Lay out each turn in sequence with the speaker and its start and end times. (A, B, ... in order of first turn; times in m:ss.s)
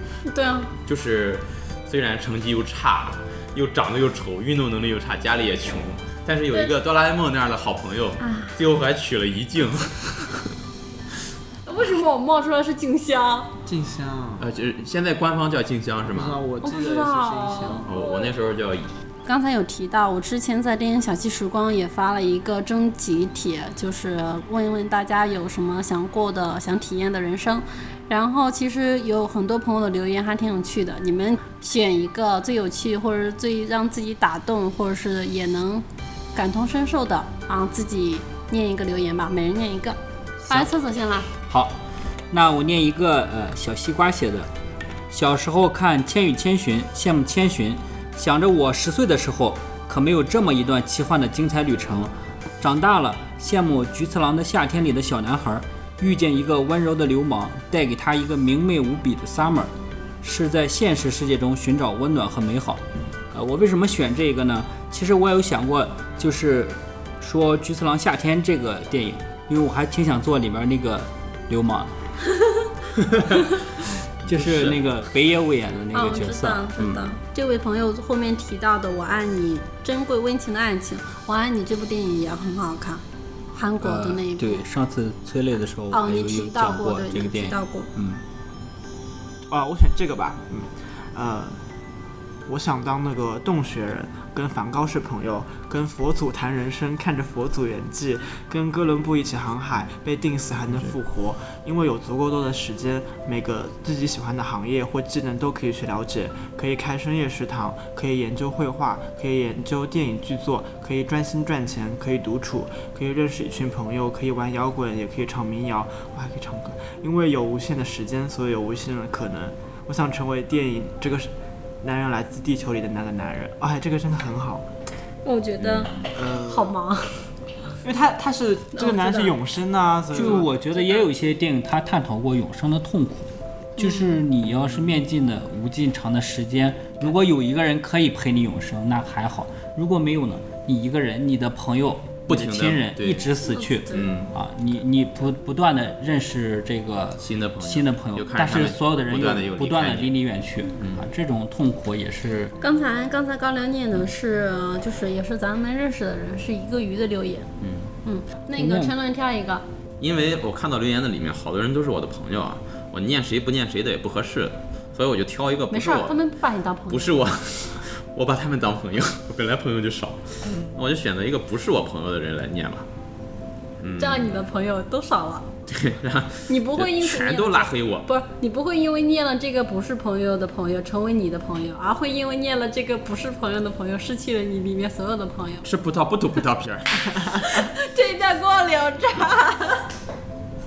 0:00.2-0:00.7 A
0:00.8-0:10.4 B
0:08.2-0:08.6 A
0:11.6-0:13.5 A
0:13.6-0:14.5 C
0:14.4-0:16.4 B
0:16.1-0:17.9 C
0:16.6-0:18.3 A
0:17.9-0:18.9 B
0:19.2-0:41.3 A
0:41.5-0:41.8 D
0:42.3-0:44.5 D
0:45.1-1:11.9 D
1:12.3-1:12.6 A
1:14.2-1:14.8 B
1:14.2-1:17.1 D
1:15.9-1:23.0 A
1:23.5-1:24.7 A
1:23.8-1:28.2 D
1:25.9-1:27.9 A
1:29.5-1:31.6 C
1:32.5-2:01.3 C
2:01.8-2:04.6 C
2:05.2-2:07.2 A
2:05.6-2:06.0 B
2:06.1-2:06.7 C
2:07.8-2:10.5 C
2:08.7-2:09.3 A
2:10.1-2:32.5 D
2:10.7-2:11.1 A
2:13.8-2:14.2 A
2:22.3-2:23.3 B
2:23.5-2:24.1 A
2:23.9-2:24.3 B
2:27.2-2:30.1 B
2:30.8-2:31.1 B
2:32.6-2:37.5 A
2:37.6-2:37.9 B
2:38.0-2:39.6 A
2:38.6-2:38.9 D
2:40.0-2:46.2 B
2:45.7-2:47.2 A
2:46.9-2:52.8 B
2:53.8-2:54.4 B
2:54.0-2:55.5 A
2:55.7-2:58.1 B
2:56.5-3:05.6 A
3:05.6-3:07.4 B
3:07.4-3:09.8 A